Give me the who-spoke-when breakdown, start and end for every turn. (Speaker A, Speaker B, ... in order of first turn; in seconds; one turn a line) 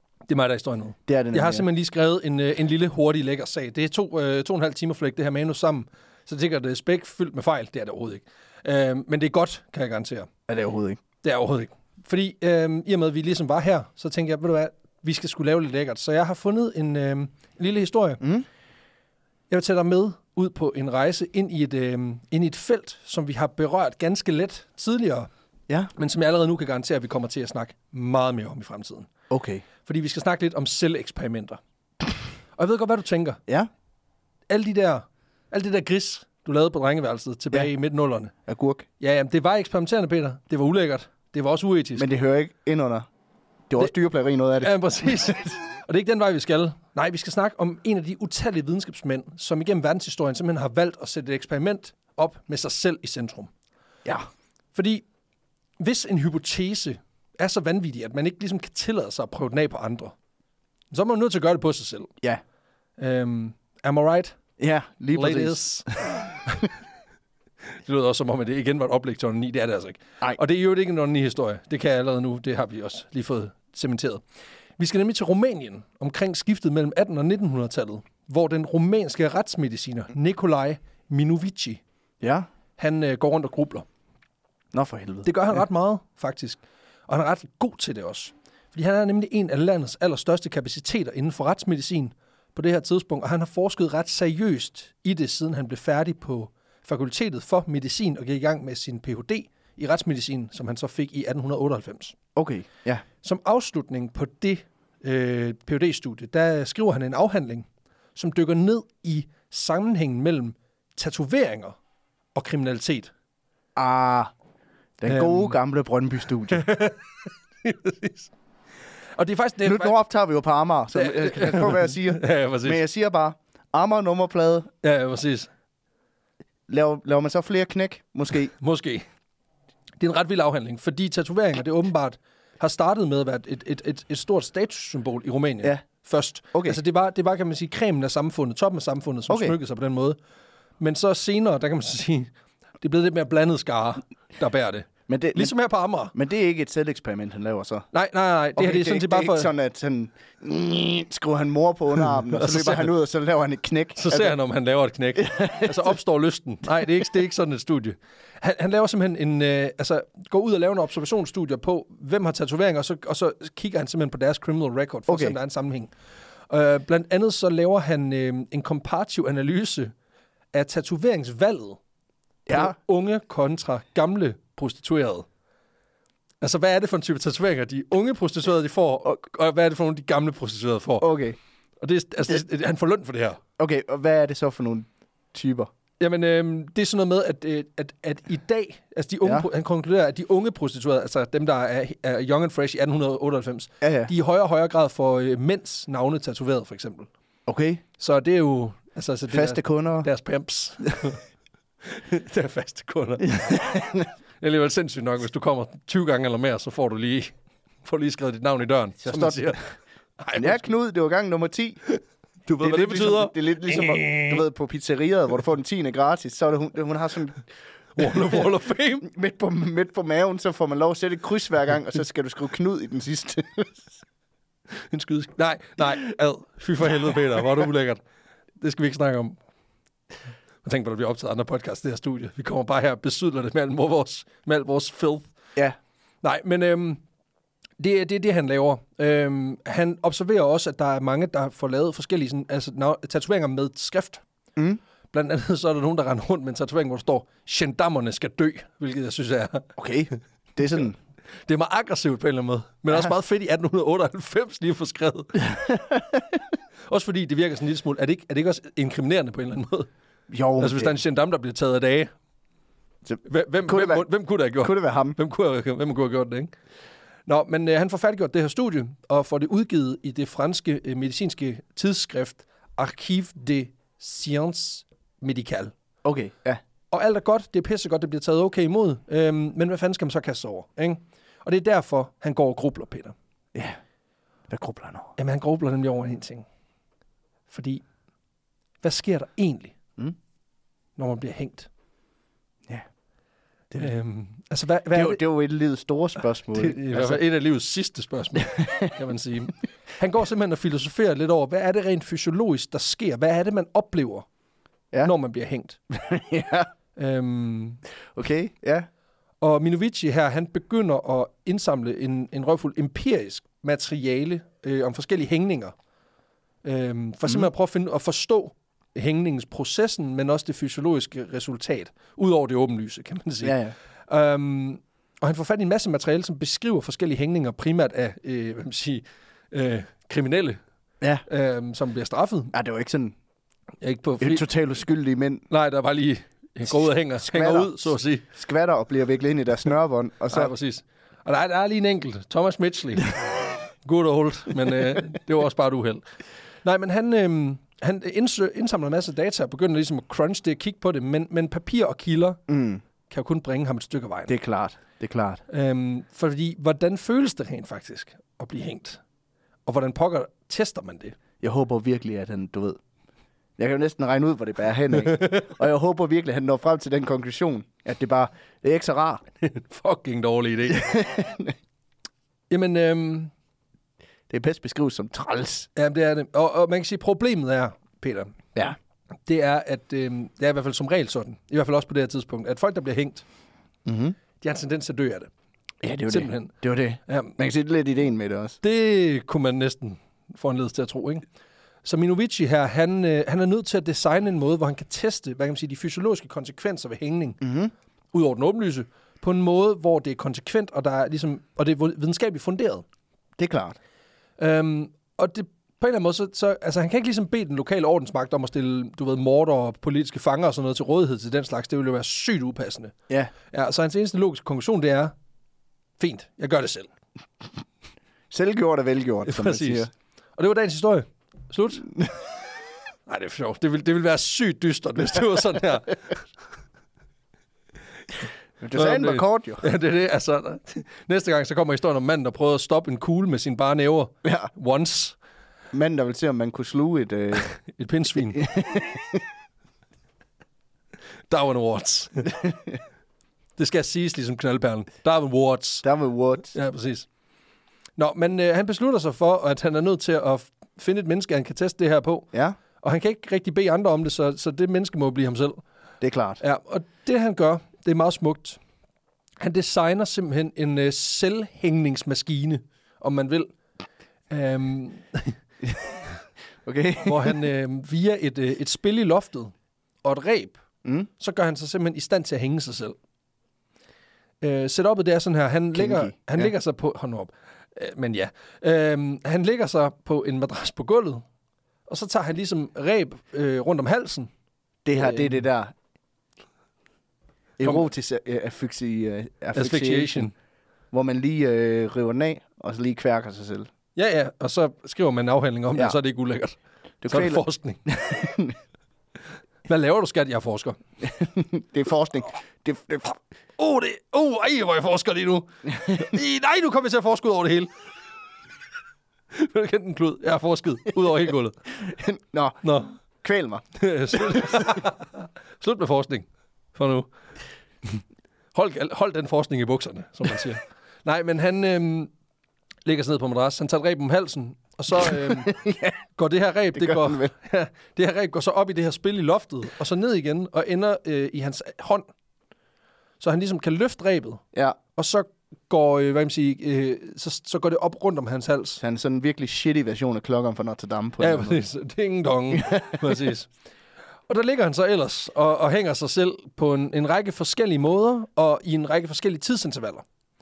Speaker A: 0.3-10.3
Speaker B: 1.1-1.6
Speaker B: 10.5-11.0
Speaker A: 11.2-18.2
Speaker B: 18.2-18.4
Speaker A: 19.5-25.3
Speaker A: 25.9-29.1
Speaker B: 29.3-29.6
Speaker A: 29.8-31.6
Speaker A: 32.6-33.4
Speaker A: 34.5-38.3
Speaker B: 38.5-38.9
Speaker A: 39.0-42.1
Speaker B: 42.0-43.1
Speaker B: 43.7-44.8
Speaker A: 44.6-53.5
Speaker A: 54.7-55.0
Speaker A: 55.8-60.1
Speaker A: 60.9-62.1
Speaker A: 63.0-64.4
Speaker B: 64.6-66.2
Speaker A: 65.1-66.7
Speaker A: 67.8-74.2
Speaker A: 74.8-81.8
Speaker B: 82.2-82.5
Speaker A: 82.8-83.8
Speaker B: 84.7-85.3
Speaker A: 85.2-102.2
Speaker B: 102.3-103.0
Speaker A: 103.2-111.8
Speaker A: 112.3-113.1
Speaker B: 113.8-114.3
Speaker B: 115.0-116.6
Speaker A: 115.1-115.6
Speaker A: 116.5-118.3
Speaker A: 119.2-119.9
Speaker B: 119.6-124.7
Speaker A: 120.9-122.8
Speaker A: 124.8-125.5
Speaker B: 126.7-128.5
Speaker A: 128.6-129.1
Speaker A: 130.0-140.2
Speaker B: 139.3-139.6
Speaker A: 140.8-146.1
Speaker B: 145.1-145.5
Speaker B: 146.1-147.9
Speaker A: 147.9-149.5
Speaker B: 148.6-154.3
Speaker A: 152.3-152.9
Speaker A: 153.9-165.9
Speaker B: 155.2-155.7
Speaker B: 165.1-165.3
Speaker A: 166.5-169.9
Speaker A: 170.5-171.8
Speaker B: 172.5-172.7
Speaker A: 172.5-175.3
Speaker A: 176.4-181.1
Speaker B: 181.0-181.4
Speaker A: 181.8-183.4
Speaker B: 183.6-185.7
Speaker A: 186.0-197.1
Speaker B: 193.8-194.1
Speaker B: 197.5-197.8
Speaker A: 198.0-201.2
Speaker B: 199.3-200.1
Speaker A: 201.8-203.6
Speaker B: 203.2-204.1
Speaker A: 204.4-210.7
Speaker B: 209.0-209.6
Speaker B: 210.3-211.8
Speaker A: 211.9-214.4
Speaker B: 212.6-217.4
Speaker A: 217.9-219.1
Speaker B: 218.0-218.5
Speaker B: 219.0-224.0
Speaker A: 224.8-228.0
Speaker A: 228.6-229.4
Speaker A: 230.6-235.3
Speaker A: 236.2-237.0
Speaker A: 237.8-244.2
Speaker A: 245.1-249.7
Speaker B: 249.8-250.9
Speaker A: 251.4-255.4
Speaker B: 255.4-256.4
Speaker A: 256.9-259.9
Speaker B: 260.3-261.0
Speaker A: 260.6-262.1
Speaker B: 263.1-265.2
Speaker A: 263.2-266.5
Speaker A: 267.3-275.7
Speaker B: 276.0-276.6
Speaker A: 276.9-283.1
Speaker B: 284.5-285.1
Speaker A: 285.2-286.4
Speaker A: 287.5-287.8
Speaker A: 288.8-289.8
Speaker A: 291.0-291.7
Speaker A: 293.8-295.2
Speaker B: 294.9-297.2
Speaker A: 296.5-304.2
Speaker A: 305.0-305.8
Speaker B: 305.9-306.7
Speaker A: 306.9-307.8
Speaker B: 308.1-308.9
Speaker A: 309.4-315.7
Speaker A: 316.6-323.6
Speaker B: 317.2-317.5
Speaker B: 323.4-323.7
Speaker A: 324.1-330.6
Speaker A: 331.3-332.5
Speaker B: 332.5-333.1
Speaker A: 333.8-334.5
Speaker B: 334.2-335.4
Speaker A: 335.5-338.2
Speaker B: 337.2-340.5
Speaker A: 340.3-346.0
Speaker A: 346.6-352.4
Speaker B: 352.5-352.8
Speaker A: 353.1-354.4
Speaker B: 354.3-355.4
Speaker A: 355.5-359.0
Speaker A: 359.6-361.2
Speaker B: 361.4-362.8
Speaker B: 363.6-369.2
Speaker A: 365.1-365.5
Speaker A: 369.4-370.9
Speaker B: 370.7-371.5
Speaker A: 372.5-373.3
Speaker B: 374.3-375.7
Speaker A: 375.8-378.4
Speaker A: 379.2-383.2
Speaker B: 383.9-384.1
Speaker A: 384.4-385.3
Speaker B: 385.8-388.6
Speaker A: 386.1-386.6
Speaker A: 387.1-387.4
Speaker A: 388.6-391.2
Speaker A: 391.8-397.4
Speaker B: 397.4-397.7
Speaker A: 398.1-402.8
Speaker B: 403.4-403.8
Speaker A: 404.4-412.9
Speaker A: 413.5-415.1
Speaker A: 416.0-416.9
Speaker B: 418.3-419.9
Speaker A: 419.2-421.9
Speaker A: 423.1-426.2
Speaker B: 428.6-429.6
Speaker A: 428.7-435.2
Speaker B: 434.2-434.5
Speaker B: 435.7-437.5
Speaker A: 437.4-438.5
Speaker B: 438.3-439.2
Speaker A: 441.3-442.3
Speaker B: 442.3-442.8
Speaker A: 443.6-445.9
Speaker B: 445.8-446.5
Speaker A: 446.5-447.1
Speaker A: 448.0-452.3
Speaker A: 452.8-455.6
Speaker B: 456.0-456.4
Speaker A: 456.4-458.6
Speaker A: 459.4-463.5
Speaker A: 464.3-465.4
Speaker B: 466.6-467.4
Speaker A: 467.0-470.6
Speaker A: 471.2-472.9
Speaker A: 474.4-481.2
Speaker B: 475.7-476.5
Speaker A: 481.9-484.3
Speaker B: 484.8-485.7
Speaker A: 484.9-485.4
Speaker B: 487.6-490.3
Speaker A: 489.5-490.3
Speaker B: 490.9-493.7
Speaker A: 493.9-496.6
Speaker B: 497.0-498.5
Speaker A: 497.1-498.0
Speaker A: 499.7-500.8
Speaker B: 501.0-503.2
Speaker A: 503.6-507.7
Speaker A: 509.3-511.6
Speaker B: 511.8-514.8
Speaker A: 512.6-513.0
Speaker A: 513.8-517.1
Speaker A: 518.5-522.1
Speaker A: 522.8-525.6
Speaker B: 525.0-526.0
Speaker A: 526.1-532.1
Speaker B: 526.7-527.3
Speaker A: 533.2-534.4
Speaker A: 534.9-538.8
Speaker B: 538.8-541.6
Speaker A: 541.2-543.5
Speaker B: 542.5-543.1
Speaker A: 544.3-550.0